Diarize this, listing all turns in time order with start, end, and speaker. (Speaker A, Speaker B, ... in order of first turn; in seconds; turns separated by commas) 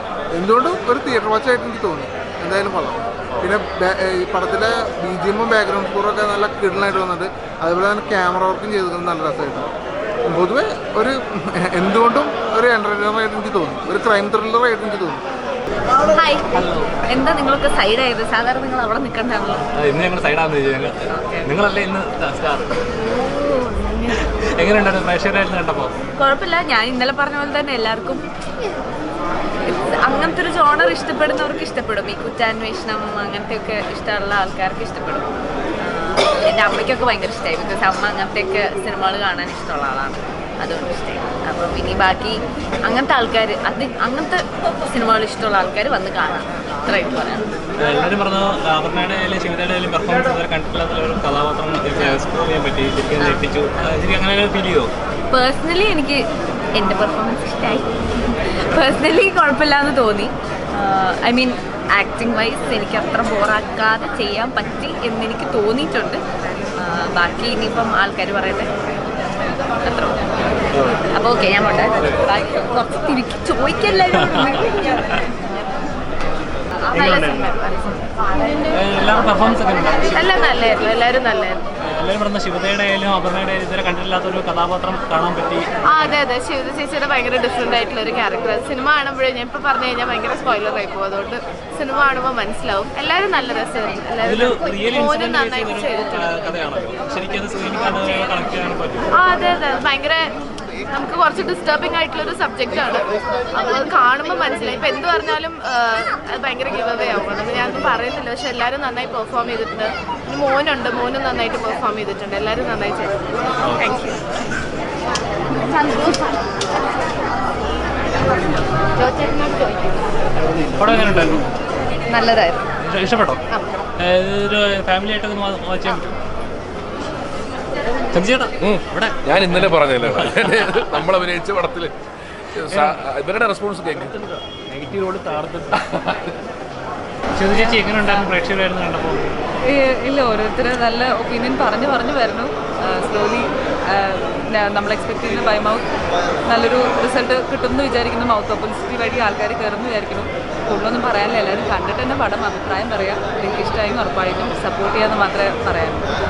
Speaker A: 0.3-9.7, Speaker A: 10.2-15.2, Speaker B: 16.1-19.6, Speaker C: 19.7-22.8, Speaker B: 21.1-21.4, Speaker B: 23.0-24.2, Speaker C: 24.6-25.9, Speaker B: 26.2-28.2, Speaker B: 29.7-47.5, Speaker C: 47.8-54.9, Speaker B: 55.3-66.2, Speaker B: 66.8-68.7, Speaker B: 69.8-70.3, Speaker B: 71.1-74.8, Speaker D: 76.8-78.0, Speaker C: 78.7-80.5, Speaker D: 80.1-81.6, Speaker C: 81.8-86.2, Speaker D: 85.8-96.4, Speaker C: 94.2-99.1, Speaker D: 99.1-100.2, Speaker D: 100.9-114.2, Speaker D: 115.7-116.2, Speaker C: 120.8-121.4, Speaker D: 122.1-122.6, Speaker C: 122.8-123.4, Speaker C: 124.0-126.1, Speaker C: 128.1-131.1, Speaker E: 128.6-131.9, Speaker E: 132.6-134.2, Speaker C: 132.7-133.0, Speaker E: 135.7-136.3, Speaker C: 137.3-139.3, Speaker F: 137.5-138.3, Speaker F: 139.6-156.1